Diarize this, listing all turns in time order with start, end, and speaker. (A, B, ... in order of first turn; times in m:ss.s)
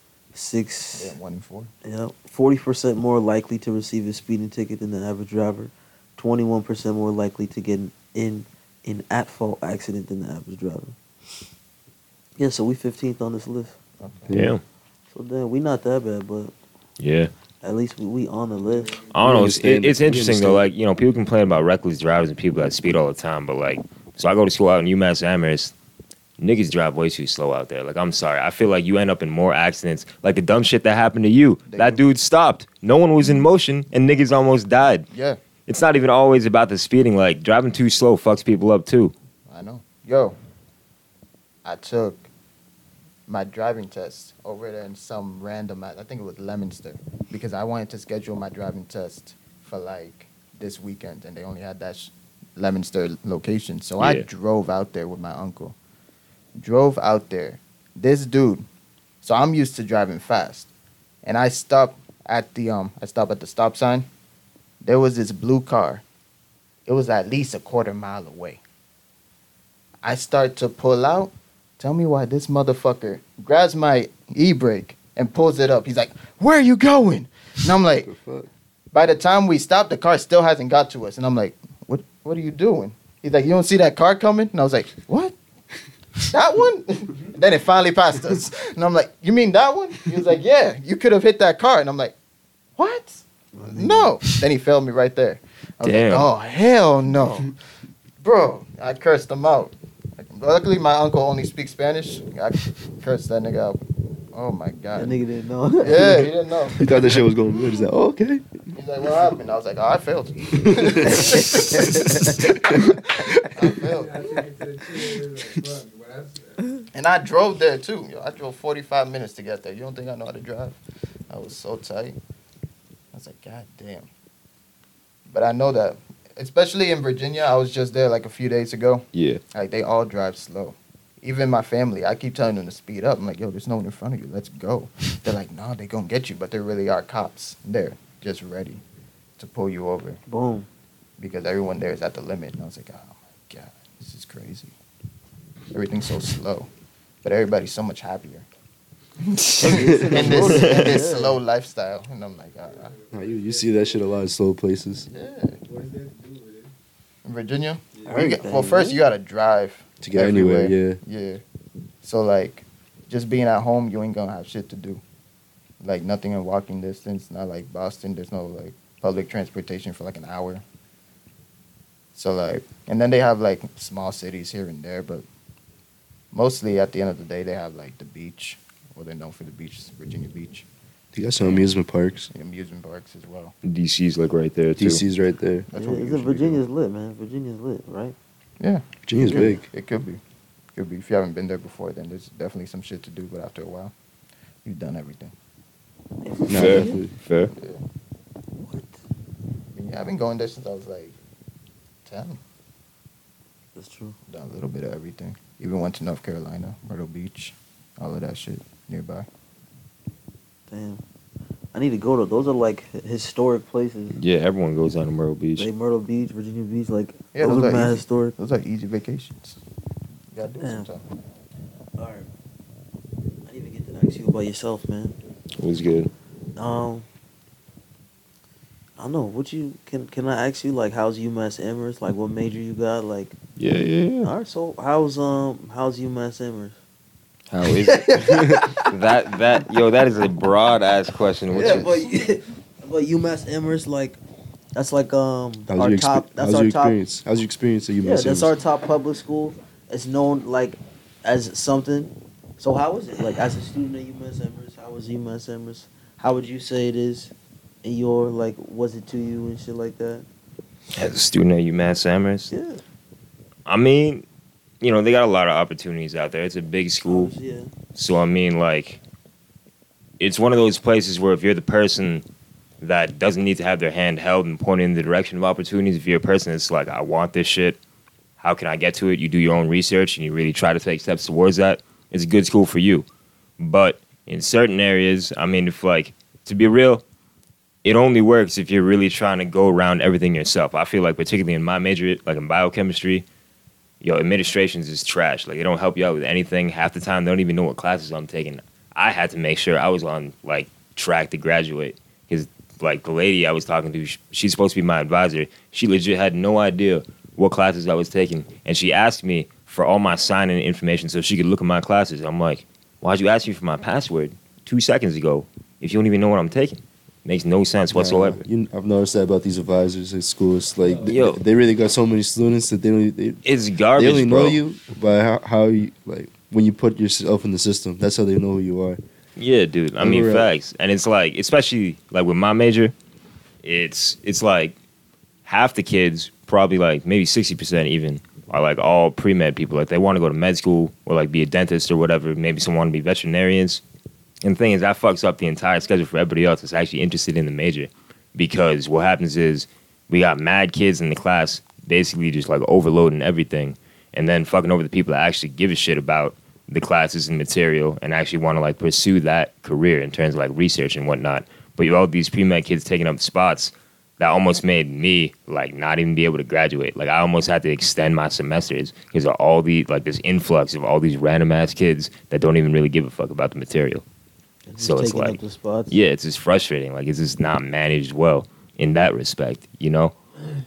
0:00.3-0:01.2 A
0:00.9-0:01.7 B
0:01.8-0:11.0 A
0:12.4-0:13.8 A
0:14.0-0:14.3 B
0:14.3-0:14.6 C
0:14.3-0:14.6 D
0:15.1-0:16.5 A
0:17.0-0:17.3 D
0:17.6-0:19.0 A
0:18.7-0:19.2 E
0:19.1-0:25.7 D
0:19.2-0:20.7 C
0:26.4-0:35.1 D
0:31.7-0:32.0 B
0:35.1-0:35.4 B
0:35.7-0:39.1 D
0:39.5-0:40.4 B
0:41.6-0:42.3 B
0:43.3-0:55.8 B
0:54.0-0:54.3 D
0:56.6-0:58.7 B
0:59.2-1:00.7 B
1:01.2-1:04.1 B
1:04.8-1:06.0 B
1:06.9-1:08.6 B
1:10.0-1:18.1 B
1:18.0-1:18.5 C
1:18.9-1:25.4 B
1:26.3-1:32.2 B
1:32.8-1:37.6 B
1:33.5-1:34.1 A
1:35.8-1:36.3 D
1:38.2-1:43.8 B
1:44.3-1:45.2 B
1:45.0-1:46.3 A
1:45.8-1:46.9 B
1:46.8-1:48.5 C
1:48.7-1:53.0 B
1:50.6-1:53.3 C
1:51.1-1:52.3 A
1:53.5-1:54.4 B
1:53.8-1:56.8 E
1:56.9-2:02.2 B
2:03.1-2:04.1 B
2:05.3-2:18.8 B
2:09.1-2:09.4 D
2:19.4-2:20.2 B
2:20.3-2:20.7 A
2:21.2-2:24.7 B
2:25.7-2:26.7 B
2:27.2-2:28.5 B
2:29.2-2:32.9 B
2:29.6-2:31.4 A
2:29.6-2:30.5 C
2:30.5-2:31.0 D
2:32.7-2:34.3 E
2:33.1-2:35.1 C
2:35.1-2:35.6 B
2:35.6-2:36.7 E
2:37.2-2:41.4 B
2:38.1-2:39.0 A
2:40.0-2:41.0 C
2:42.0-2:45.0 B
2:45.8-2:50.6 B
2:52.2-2:55.2 B
2:56.3-3:00.7 B
3:01.1-3:02.3 C
3:01.4-3:01.7 B
3:02.3-3:03.6 B
3:03.6-3:05.0 D
3:04.8-3:05.7 C
3:05.7-3:06.6 B
3:05.7-3:08.2 A
3:08.6-3:10.2 B
3:09.1-3:09.6 C
3:09.2-3:09.6 A
3:10.8-3:13.9 B
3:14.6-3:15.3 B
3:16.2-3:17.0 A
3:16.5-3:17.1 C
3:16.5-3:17.5 D
3:17.5-3:17.8 B
3:18.6-3:19.0 A
3:19.7-3:21.2 B
3:22.1-3:22.4 B
3:23.8-3:24.2 A
3:24.3-3:29.3 B
3:30.7-3:31.0 A
3:31.7-3:34.2 A
3:34.1-3:35.7 D
3:35.6-3:38.4 A
3:37.3-3:39.6 B
3:40.3-3:41.0 B
3:40.6-3:40.9 A
3:42.0-3:42.3 A
3:43.5-3:45.2 A
3:45.6-3:46.1 D
3:46.6-3:47.1 A
3:49.0-3:53.4 A
3:53.6-3:54.3 D
3:54.2-3:56.8 A
3:57.5-4:01.9 D
3:57.9-3:58.9 A
4:01.5-4:04.2 A
4:04.8-4:07.0 A
4:05.7-4:08.6 C
4:08.0-4:17.3 A
4:17.8-4:20.3 A
4:21.0-4:22.5 D
4:22.5-4:22.8 A
4:23.7-4:24.2 D
4:24.8-4:27.3 D
4:27.1-4:27.7 A
4:28.0-4:29.0 D
4:30.2-4:32.2 D
4:32.8-4:37.8 D
4:38.4-4:43.1 D
4:43.6-4:47.0 D
4:47.8-4:53.2 D
4:54.0-5:18.4 D
5:17.9-5:23.4 C
5:20.8-5:21.1 E
5:21.1-5:21.4 D
5:23.4-5:24.6 D
5:24.0-5:29.0 C
5:29.4-5:32.9 D
5:30.0-5:30.5 C
5:33.6-5:34.8 D
5:35.5-5:43.8 D
5:44.4-6:14.0 D
6:14.7-6:16.0 A
6:14.8-6:15.4 D
6:15.9-6:20.2 D